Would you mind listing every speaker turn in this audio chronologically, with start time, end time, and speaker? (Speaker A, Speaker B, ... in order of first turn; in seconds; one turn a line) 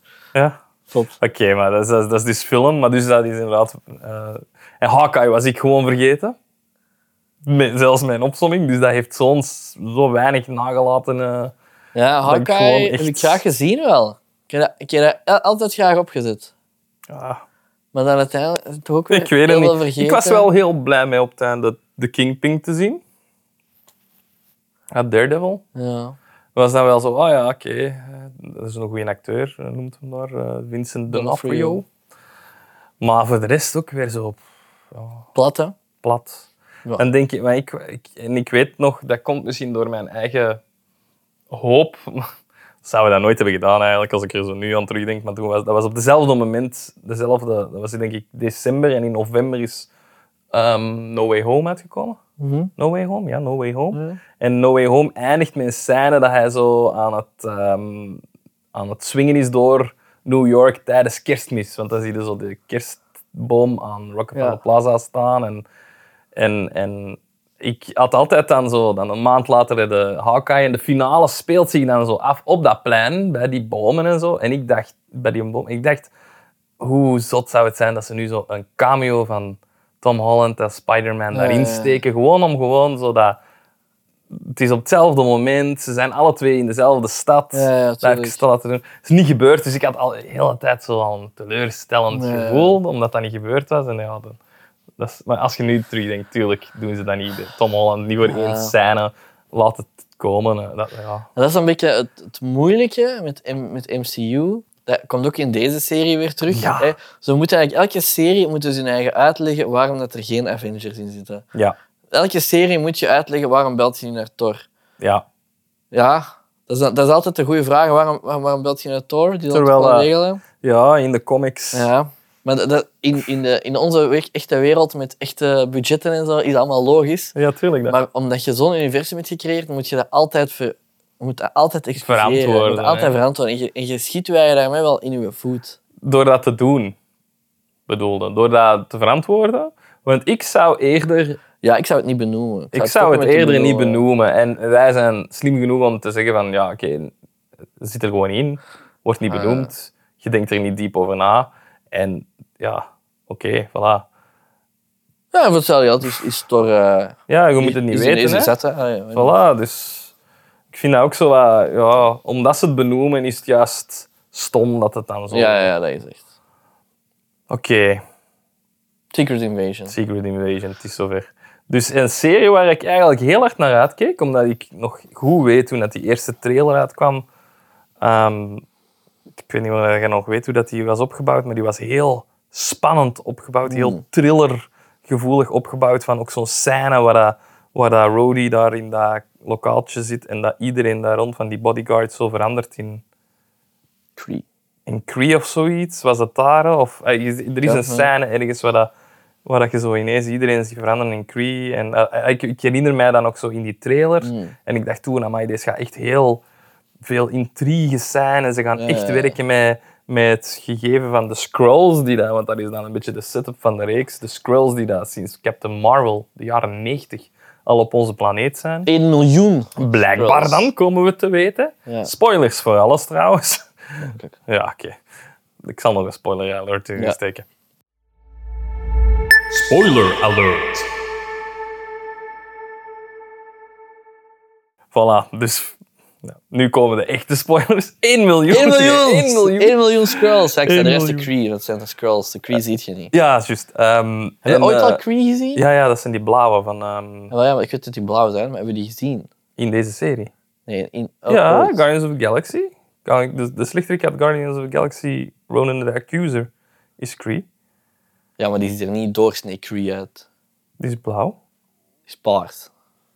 Speaker A: 0.9-1.2
Speaker B: 1.2-6.4
Speaker B: 7.4-11.6
Speaker A: 11.9-16.5
Speaker B: 12.3-13.4
Speaker B: 17.1-17.4
Speaker A: 17.9-20.5
Speaker B: 19.1-23.0
Speaker B: 24.9-25.6
Speaker A: 25.8-26.2
Speaker B: 26.6-31.9
Speaker A: 31.1-31.8
Speaker B: 33.0-34.4
Speaker B: 34.9-35.3
Speaker A: 35.4-35.8
Speaker B: 36.0-36.5
Speaker B: 37.0-40.6
Speaker B: 41.5-42.3
Speaker B: 42.8-49.9
Speaker B: 50.5-52.2
Speaker A: 52.4-52.7
Speaker B: 52.8-58.2
Speaker A: 53.9-54.2
Speaker B: 58.7-65.7
Speaker B: 66.4-76.1
Speaker B: 76.8-83.4
Speaker A: 81.3-82.0
Speaker B: 84.3-94.4
Speaker A: 87.5-88.4
Speaker A: 92.1-92.8
Speaker B: 95.0-101.3
Speaker A: 98.2-98.7
Speaker A: 101.4-111.5
Speaker B: 106.5-107.0
Speaker A: 112.1-114.6
Speaker B: 115.0-115.2
Speaker A: 115.9-120.4
Speaker B: 119.5-120.1
Speaker B: 120.6-121.9
Speaker A: 121.7-127.3
Speaker B: 127.3-128.0
Speaker A: 127.9-135.8
Speaker B: 132.0-133.2
Speaker B: 136.0-137.0
Speaker B: 137.9-141.4
Speaker A: 141.6-144.1
Speaker B: 142.7-147.1
Speaker B: 147.8-154.1
Speaker A: 149.3-149.7
Speaker A: 155.3-159.3
Speaker B: 157.3-158.5
Speaker B: 159.2-160.1
Speaker B: 160.7-165.7
Speaker A: 165.3-166.2
Speaker B: 167.5-168.0
Speaker A: 169.1-169.9
Speaker B: 169.9-177.3
Speaker B: 178.0-178.6
Speaker B: 179.4-193.0
Speaker A: 183.7-184.0
Speaker A: 194.2-194.4
Speaker B: 194.9-198.9
Speaker A: 197.7-198.1
Speaker B: 199.4-206.4
Speaker A: 204.2-204.6
Speaker B: 207.0-218.9
Speaker A: 208.8-209.4
Speaker A: 218.9-220.7
Speaker B: 219.8-223.7
Speaker A: 224.0-224.3
Speaker B: 224.5-225.0
Speaker B: 225.6-227.5
Speaker B: 229.5-230.9
Speaker B: 234.9-241.3
Speaker A: 238.5-243.1
Speaker B: 243.1-245.0
Speaker A: 244.4-245.6
Speaker B: 245.6-247.3
Speaker A: 247.3-249.3
Speaker B: 249.6-250.3
Speaker A: 250.7-251.8
Speaker B: 251.3-257.5
Speaker A: 258.4-260.2
Speaker B: 260.8-261.4
Speaker A: 262.1-262.7